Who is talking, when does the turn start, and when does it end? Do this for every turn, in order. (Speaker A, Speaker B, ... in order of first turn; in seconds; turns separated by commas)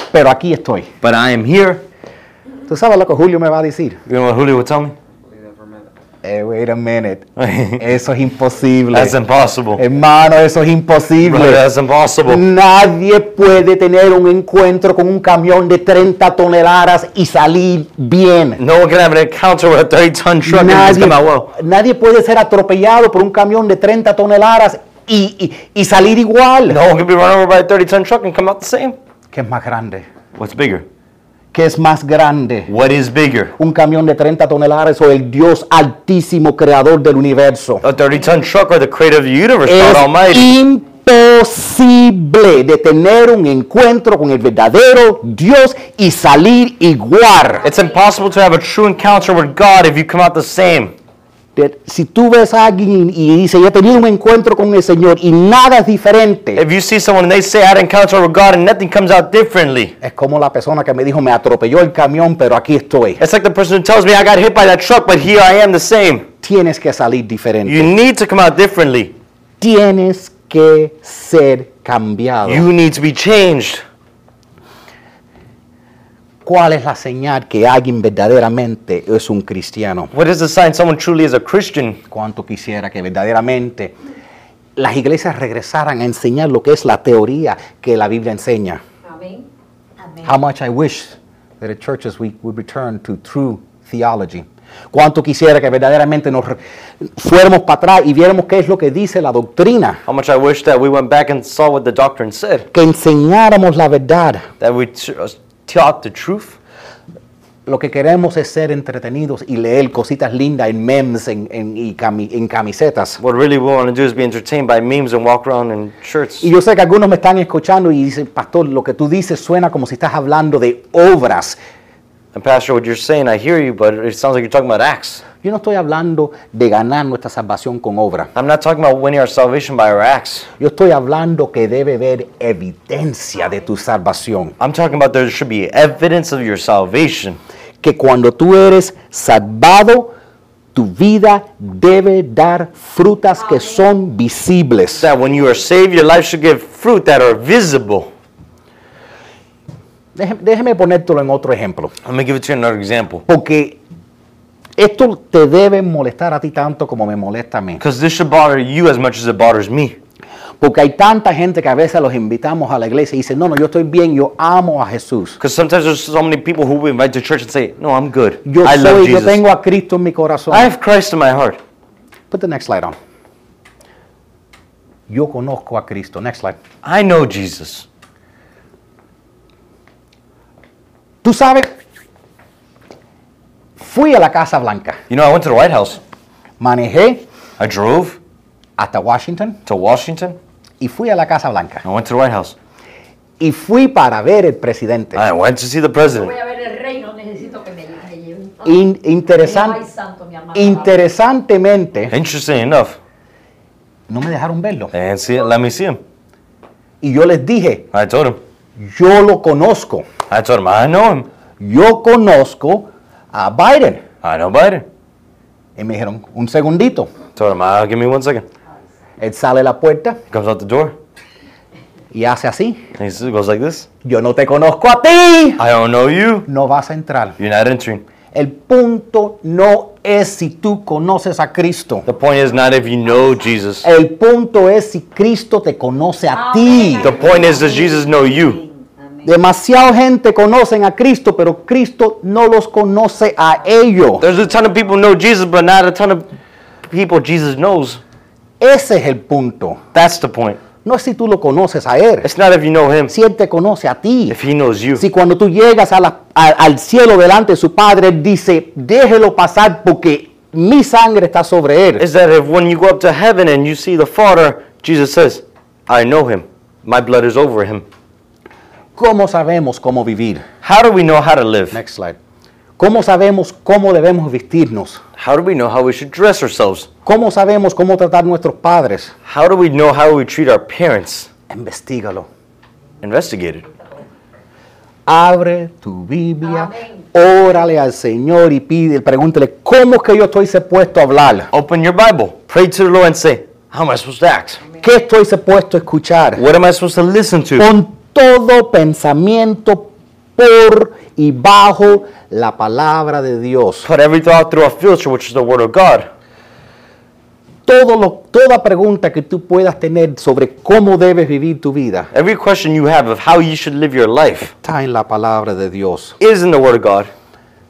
Speaker A: 0.1-0.9, Speaker B: 1.0-1.8, Speaker A: 2.7-4.0, Speaker B: 4.1-5.0, Speaker A: 6.2-9.2, Speaker B: 7.4-7.8, Speaker B: 8.9-9.8, Speaker A: 9.8-11.7, Speaker B: 11.2-12.4, Speaker A: 12.3-18.6, Speaker B: 18.6-21.5, Speaker A: 20.5-26.8, Speaker B: 26.7-29.0, Speaker A: 29.3-30.1, Speaker B: 30.4-30.9, Speaker A: 31.5-32.7, Speaker B: 32.7-33.5, Speaker A: 33.6-37.8, Speaker B: 37.8-40.5, Speaker A: 39.7-47.7, Speaker B: 47.6-51.0, Speaker A: 51.6-56.6, Speaker B: 56.5-60.0, Speaker A: 60.0-63.2, Speaker B: 63.2-66.3, Speaker A: 66.4-67.9, Speaker B: 67.7-69.2, Speaker A: 69.6-72.7, Speaker B: 72.5-73.8, Speaker A: 76.4-80.1, Speaker B: 80.1-82.0, Speaker A: 82.1-83.9, Speaker A: 84.8-88.8, Speaker C: 89.1-89.5, Speaker A: 90.2-100.0, Speaker B: 100.1-102.7, Speaker A: 102.7-104.5, Speaker B: 104.6-106.6, Speaker A: 107.7-113.2, Speaker B: 113.2-116.5, Speaker A: 116.4-121.6, Speaker B: 122.3-125.2, Speaker A: 125.4-128.3, Speaker B: 128.3-130.5, Speaker A: 130.6-134.6, Speaker B: 134.6-137.4, Speaker A: 137.8-140.1, Speaker A: 140.7-145.1, Speaker B: 145.0-148.1, Speaker A: 150.2-151.9, Speaker B: 152.1-153.2, Speaker A: 153.3-153.8, Speaker A: 154.8-157.8, Speaker B: 157.8-160.0, Speaker A: 160.6-165.4, Speaker B: 165.4-169.4, Speaker A: 168.4-170.7, Speaker B: 170.5-171.6, Speaker A: 172.3-173.0, Speaker A: 175.1-176.6, Speaker B: 176.8-177.9, Speaker A: 181.2-181.7, Speaker A: 183.8-185.0, Speaker B: 185.1-186.0, Speaker A: 186.6-187.2, Speaker B: 187.6-188.2, Speaker A: 188.8-189.6, Speaker B: 189.7-190.4, Speaker A: 190.8-191.8, Speaker B: 191.8-192.6, Speaker A: 193.4-195.2, Speaker B: 195.1-196.3, Speaker C: 196.2-198.7, Speaker A: 198.6-199.8, Speaker C: 199.4-200.9, Speaker A: 200.6-202.2, Speaker B: 202.1-203.0, Speaker A: 204.1-204.9, Speaker B: 204.9-206.0, Speaker A: 207.0-207.9, Speaker B: 207.9-208.4, Speaker A: 208.8-210.1, Speaker B: 210.3-211.3, Speaker A: 211.6-214.0, Speaker B: 214.2-214.9, Speaker A: 215.8-217.1, Speaker B: 217.4-218.5, Speaker A: 219.2-220.2, Speaker B: 220.3-221.0, Speaker A: 222.1-222.8, Speaker B: 223.0-223.9, Speaker A: 224.0-225.6, Speaker B: 225.6-226.5, Speaker A: 226.5-227.4, Speaker B: 227.4-228.0, Speaker A: 228.3-232.1, Speaker B: 232.1-233.9, Speaker A: 233.8-237.2, Speaker C: 236.6-237.6, Speaker B: 237.0-238.6, Speaker A: 239.2-244.2, Speaker B: 244.2-246.3, Speaker B: 246.9-248.0, Speaker A: 248.6-249.8, Speaker B: 249.9-250.6, Speaker A: 250.8-252.3, Speaker B: 252.2-253.1, Speaker A: 253.1-254.4, Speaker B: 254.3-255.0, Speaker A: 255.0-262.0, Speaker B: 262.0-267.9, Speaker A: 268.9-270.4, Speaker B: 270.6-271.8, Speaker A: 271.7-272.2, Speaker A: 272.8-275.0, Speaker B: 275.2-276.9, Speaker A: 277.1-279.1, Speaker B: 279.2-281.3, Speaker A: 281.5-282.3, Speaker B: 283.0-283.7, Speaker A: 285.1-291.5, Speaker B: 291.5-294.6, Speaker A: 294.8-296.4, Speaker B: 296.4-297.7, Speaker A: 297.6-303.9, Speaker B: 303.8-306.1, Speaker A: 307.7-312.1, Speaker B: 312.1-314.5, Speaker A: 314.6-316.2, Speaker B: 316.2-317.1